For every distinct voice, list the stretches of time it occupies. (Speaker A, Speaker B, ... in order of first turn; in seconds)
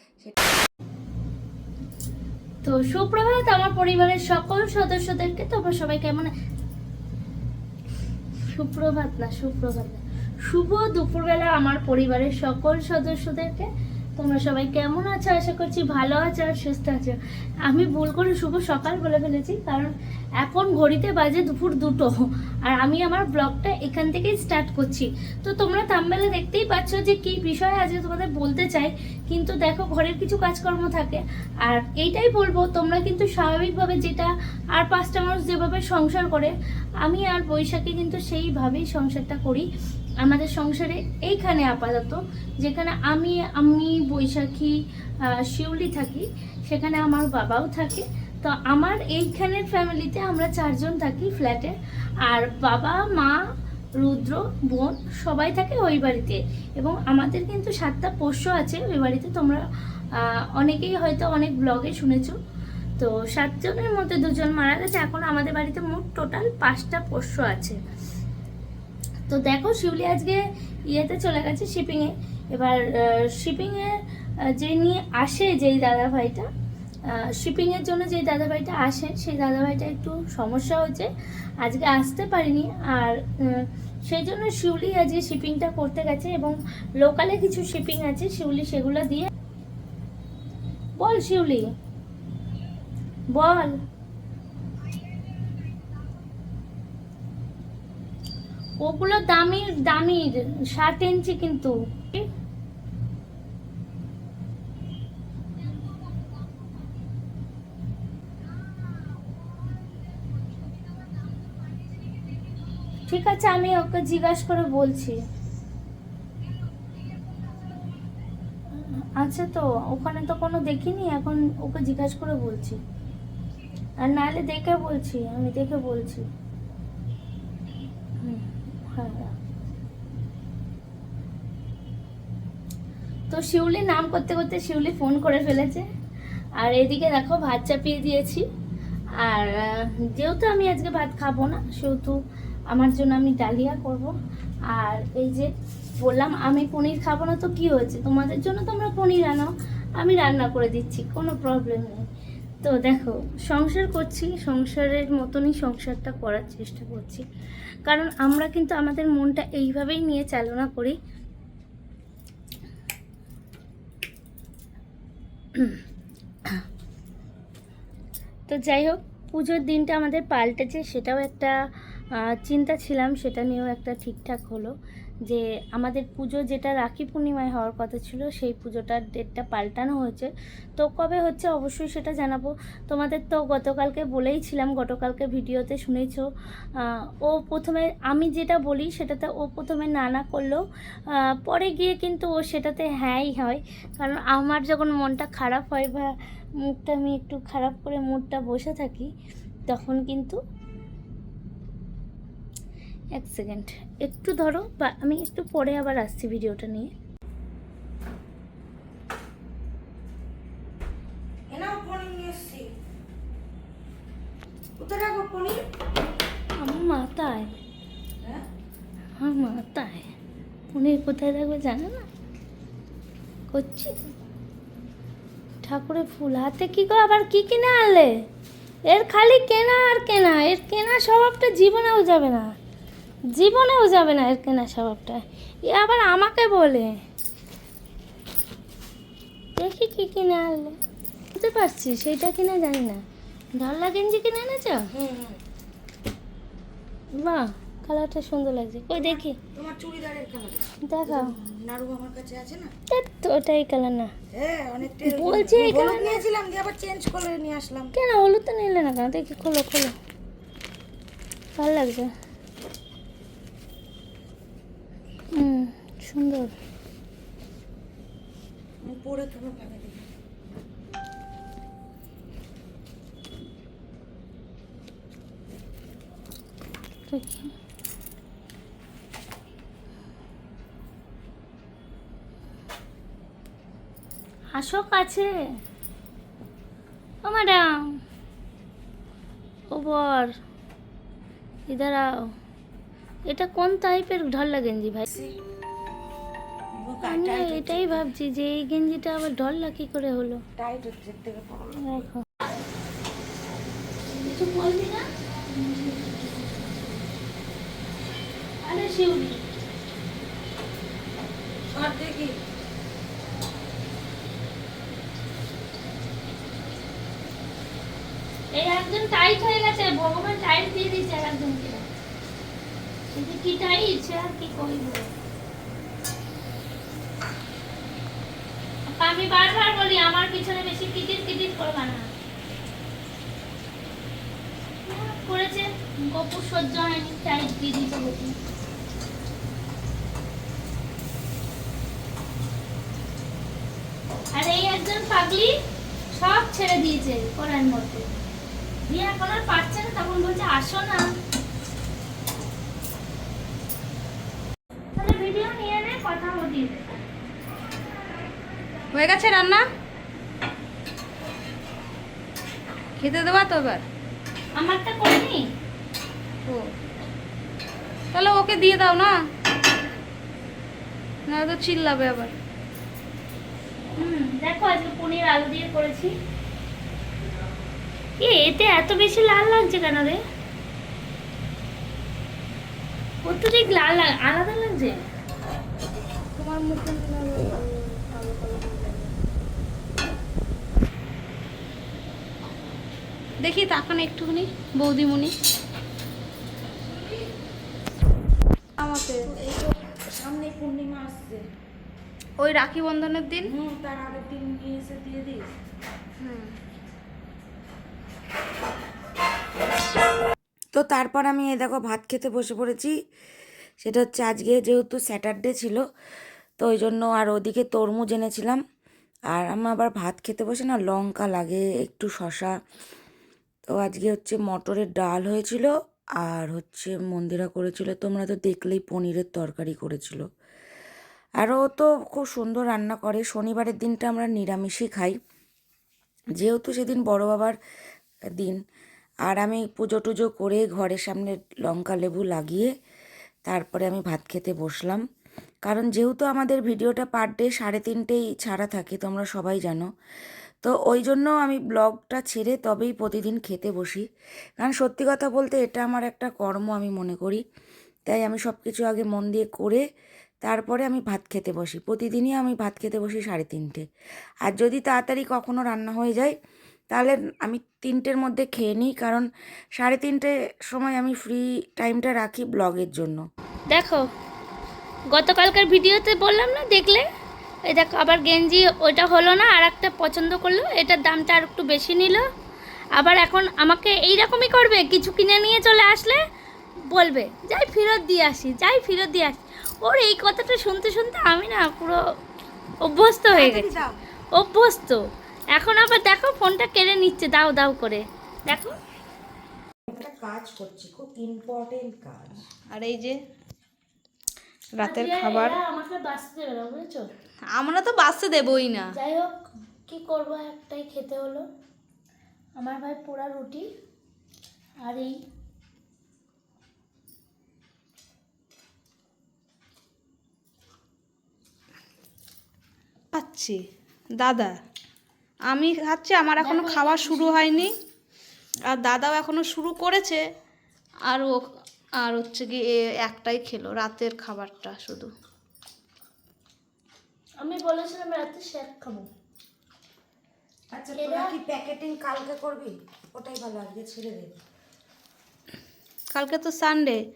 Speaker A: 2.6-6.3, 8.4-39.7, 40.2-44.8, 45.5-51.8, 52.3-53.4, 54.0-59.6, 60.2-62.4, 63.0-67.8, 69.3-74.0, 74.6-76.5, 77.1-89.3, 91.0-91.7, 93.3-93.8, 98.8-102.3, 113.1-115.2, 118.7-122.8, 124.0-126.3, 128.2-129.3, 133.3-135.9, 136.6-138.4, 139.2-142.2, 142.7-144.1, 144.7-152.0, 152.6-157.2, 157.9-161.0, 168.5-171.6, 172.2-174.7, 175.3-186.2, 186.8-196.1, 196.6-199.1, 199.7-200.4, 203.2-206.9, 216.6-217.5, 219.2-220.1, 220.7-222.1, 223.5-224.0, 225.6-228.1, 228.9-232.5, 233.3-237.0, 239.6-240.8, 241.3-243.0, 243.6-244.9, 247.2-249.4, 250.9-251.3, 252.9-254.1, 255.0-256.2, 257.9-259.9, 261.6-262.1, 265.4-266.5, 277.1-277.5, 284.6-285.3, 287.2-287.7, 289.7-290.3, 291.7-292.1, 293.3-295.1, 297.0-300.4, 301.8-302.3, 304.1-306.7, 308.6-309.4, 318.5-321.9, 323.1-325.1, 328.9-332.1, 334.9-338.4, 344.3-345.5, 346.1-348.1, 348.9-351.1, 355.0-357.0, 364.6-365.5, 374.0-376.1, 378.2-380.2, 383.2-385.0, 473.7-474.1, 475.1-477.1, 477.7-482.2, 483.0-486.2, 486.9-492.0, 492.8-493.8, 494.4-495.0, 495.6-498.8, 504.8-507.1, 508.9-509.3, 509.9-511.5, 512.6-513.7, 514.8-515.1, 526.4-527.7, 537.4-539.1, 541.0-541.4
Speaker B: 211.5-212.7, 214.8-215.6, 244.9-245.4, 248.9-252.7, 254.3-257.9, 268.8-270.1, 295.1-295.3, 296.8-298.1, 300.6-302.1, 311.7-312.4, 386.5-387.1, 387.6-389.0, 399.2-401.5, 403.4-405.5, 410.8-412.9, 413.8-415.8, 416.6-418.6, 419.3-422.5, 423.7-425.7, 426.2-430.2, 431.4-435.2, 436.4-437.6, 439.2-442.7, 443.5-445.0, 445.6-449.9, 450.6-454.1, 454.6-457.4, 458.1-459.8, 460.4-463.9, 464.4-466.4, 466.9-469.3, 469.8-473.2, 493.3-493.9, 499.9-502.4, 540.7-544.4
Speaker C: 358.9-359.6, 363.0-363.8, 368.1-369.1, 371.3-372.3, 386.4-387.6, 388.3-388.8, 393.4-395.3, 398.8-399.3, 402.4-403.5, 406.2-406.6, 502.7-503.2, 504.8-505.6, 507.5-509.0, 523.1-523.6, 524.2-524.6, 525.5-527.8, 528.7-530.2, 531.1-531.5, 532.0-535.1, 546.1-547.0